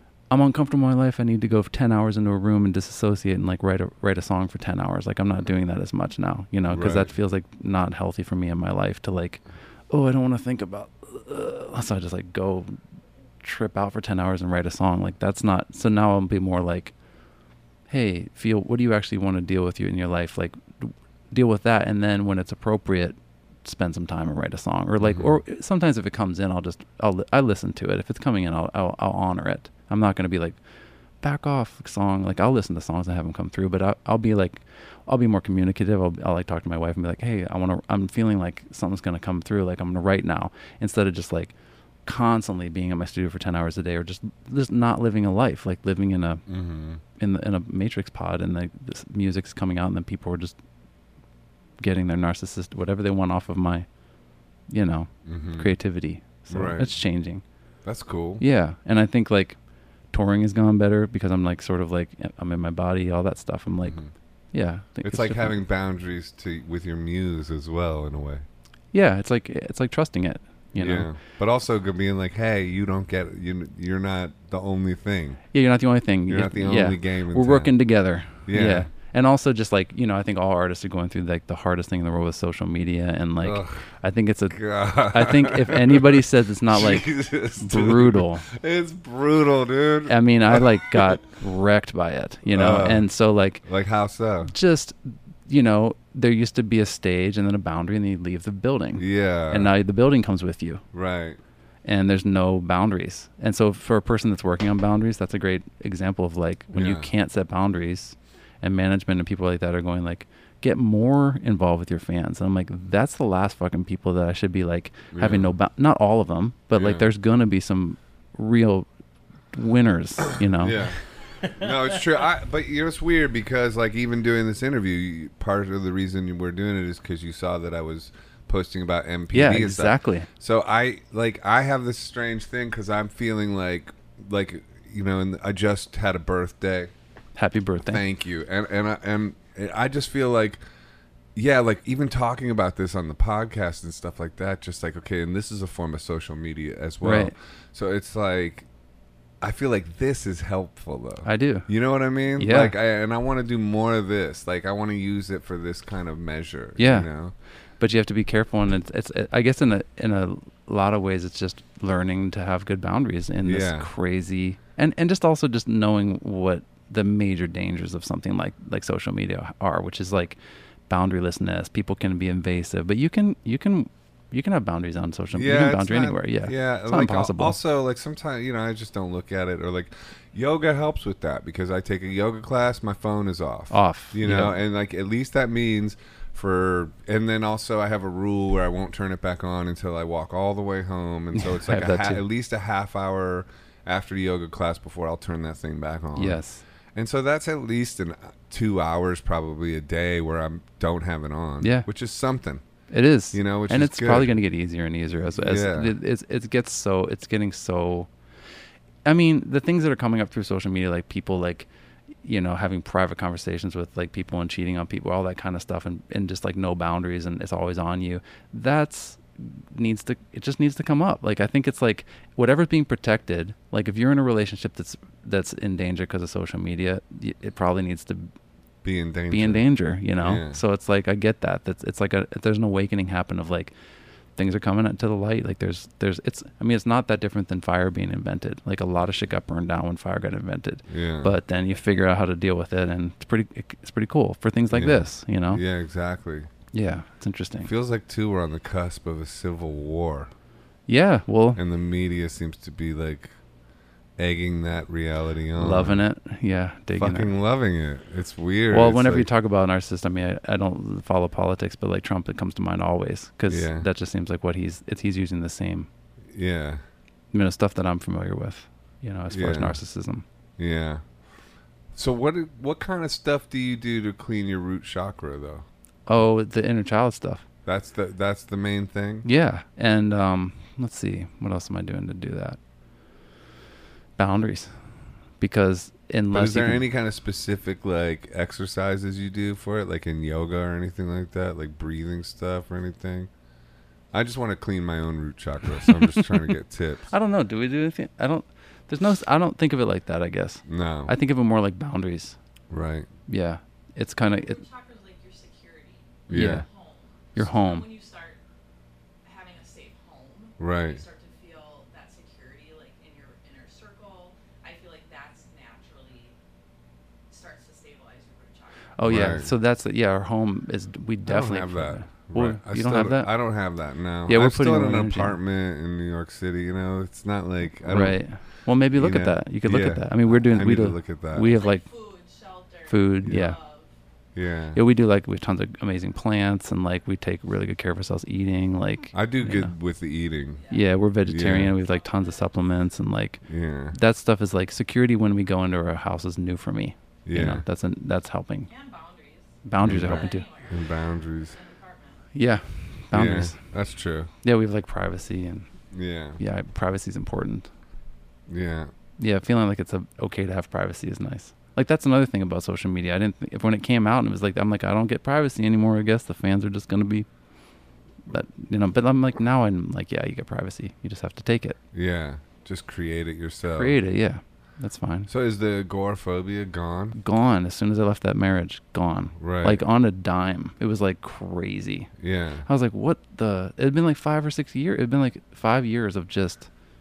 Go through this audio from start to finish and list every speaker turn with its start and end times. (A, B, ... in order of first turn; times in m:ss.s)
0:00.3-0:12.8 A
0:06.7-0:07.1 B
0:13.4-0:16.9 A
0:17.9-0:30.6 A
0:25.0-0:25.4 B
0:31.2-0:41.5 A
0:42.0-0:46.4 A
0:46.5-0:47.0 B
0:47.2-0:50.6 A
0:51.8-0:53.9 A
0:54.7-0:57.4 A
0:55.2-0:55.7 B
0:56.5-0:56.9 B
0:57.8-0:58.4 B
0:58.4-0:59.6 A
1:00.1-1:04.0 A
1:03.8-1:04.1 B
1:04.5-1:05.6 A
1:05.0-1:08.4 B
1:08.9-1:11.1 A
1:10.8-1:15.4 B
1:15.5-1:28.4 A
1:16.3-1:17.7 B
1:18.4-1:18.9 B
1:23.4-1:23.8 B
1:24.5-1:31.2 B
1:30.1-1:33.6 A
1:32.5-1:33.1 B
1:33.6-1:34.5 B
1:34.5-1:40.8 A
1:39.0-1:39.7 B
1:40.9-1:41.4 B
1:41.8-1:58.9 A
1:46.7-1:47.1 B
1:55.1-1:55.5 B
1:56.7-1:57.1 B
1:59.5-2:00.9 A
2:00.4-2:16.9 B
2:09.3-2:10.3 A
2:17.4-2:18.0 A
2:17.8-2:20.6 B
2:21.3-2:28.7 B
2:27.0-2:27.3 A
2:29.4-2:37.3 B
2:31.2-2:31.7 A
2:32.4-2:32.7 A
2:36.8-2:37.1 A
2:37.8-2:57.6 A
2:43.4-2:43.9 B
2:55.3-3:16.4 B
3:03.7-3:04.6 A
3:11.3-3:12.2 A
3:16.2-3:16.6 A
3:16.9-3:22.6 B
3:21.6-3:21.9 A
3:22.9-3:28.1 A
3:23.3-3:24.4 B
3:25.2-3:25.9 B
3:29.0-3:31.7 A
3:32.2-3:48.3 A
3:48.8-3:49.6 B
3:49.3-3:53.7 A
3:50.2-3:50.6 B
3:54.4-4:05.6 A
4:00.9-4:01.3 B
4:04.7-4:06.5 B
4:06.7-4:07.7 A
4:07.6-4:10.3 B
4:10.9-4:11.6 A
4:11.6-4:13.3 B
4:14.2-4:16.0 B
4:15.6-4:17.3 A
4:17.0-4:19.3 B
4:18.7-4:25.9 A
4:23.5-4:23.9 B
4:26.3-4:26.8 B
4:27.3-4:30.2 A
4:29.3-4:29.8 B
4:30.6-4:31.0 B
4:31.9-4:35.6 B
4:36.1-4:37.4 A
4:37.6-4:39.3 B
4:39.2-4:42.6 A
4:44.2-4:44.7 A
4:45.4-4:46.8 A
4:46.3-4:53.3 B
4:54.1-4:57.1 B
4:57.1-5:02.4 A
5:00.6-5:01.1 B
5:02.7-5:03.1 B
5:03.3-5:04.6 A
5:04.2-5:08.4 C
5:06.3-5:06.6 B
5:06.3-5:06.6 A
5:07.3-5:07.9 A
5:09.2-5:16.4 C
5:10.6-5:11.0 B
5:17.3-5:19.0 C
5:19.0-5:23.3 A
5:19.0-5:19.5 B
5:21.2-5:28.2 B
5:24.3-5:25.4 A
5:27.9-5:31.8 A
5:29.0-5:31.5 B
5:31.4-5:33.9 C
5:32.9-5:33.6 A
5:33.2-5:33.5 B
5:34.3-5:34.8 B
5:34.7-5:39.7 A
5:39.1-5:40.6 B
5:40.6-5:40.9 C
5:40.7-5:43.4 A
5:41.2-5:41.7 B
5:41.8-5:42.5 C
5:43.4-5:44.0 B
5:43.9-5:48.7 A
5:47.3-5:47.6 B
5:48.7-5:52.3 C
5:49.6-5:50.5 A
5:49.8-5:51.6 B
5:52.3-5:53.6 A
5:53.1-5:54.3 B
5:54.4-5:55.7 A
5:55.9-5:56.4 B
5:56.4-5:57.7 A
5:58.5-5:58.9 B
5:59.2-6:07.3 A
6:08.3-6:11.8 A
6:11.9-6:14.0 B
6:13.7-6:15.3 A
6:15.3-6:17.2 B
6:17.2-6:22.1 A
6:19.4-6:19.8 B
6:22.2-6:22.6 B
6:22.6-6:26.7 A